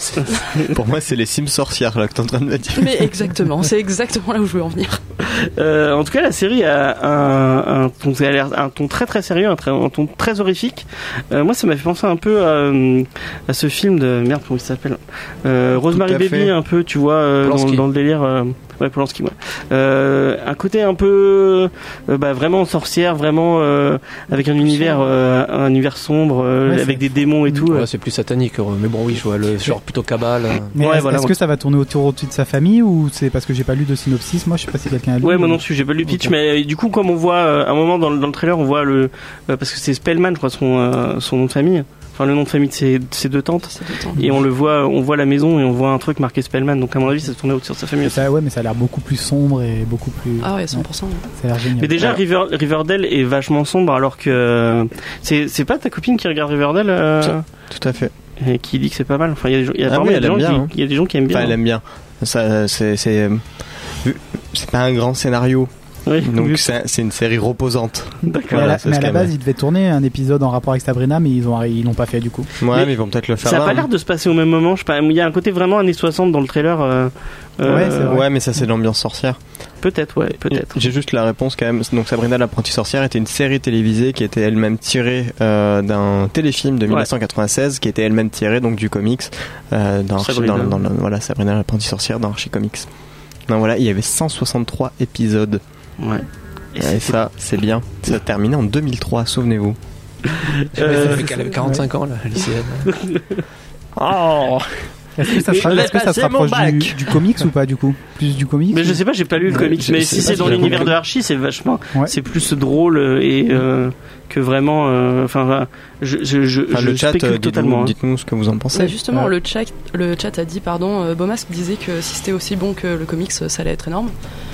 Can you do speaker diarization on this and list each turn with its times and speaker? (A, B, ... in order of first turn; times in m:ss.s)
0:00.2-0:00.8 A
0:00.6-0:03.1 B
0:02.8-0:05.0 C
0:05.2-0:27.9 A
0:15.8-0:16.5 B
0:17.4-0:17.8 D
0:24.6-0:25.0 C
0:26.7-0:27.7 E
0:27.7-0:30.8 D
0:30.8-0:36.3 E
0:30.8-0:31.3 A
0:35.2-0:48.2 A
0:43.7-0:44.4 C
0:48.1-0:52.1 E
0:50.4-0:51.3 C
0:51.8-0:57.4 A
0:57.7-0:58.1 B
0:58.4-1:01.6 A
0:59.9-1:00.7 B
1:01.3-1:03.4 B
1:04.0-1:09.3 B
1:06.1-1:06.6 A
1:08.2-1:08.7 A
1:08.5-1:12.5 E
1:12.6-1:13.9 B
1:12.7-1:18.2 A
1:17.6-1:18.3 E
1:17.7-1:19.4 B
1:19.8-1:20.8 A
1:20.5-1:32.9 B
1:30.2-1:30.8 A
1:33.5-1:35.6 B
1:36.0-1:37.2 A
1:36.8-1:39.8 B
1:40.3-1:41.4 A
1:40.7-1:43.0 D
1:41.6-1:41.9 E
1:42.9-1:43.4 A
1:44.0-1:44.8 B
1:45.2-1:50.9 E
1:45.3-1:46.1 A
1:45.5-1:47.1 B
1:48.7-1:57.9 A
1:49.5-1:51.0 B
1:56.7-1:59.3 B
1:58.7-2:04.1 C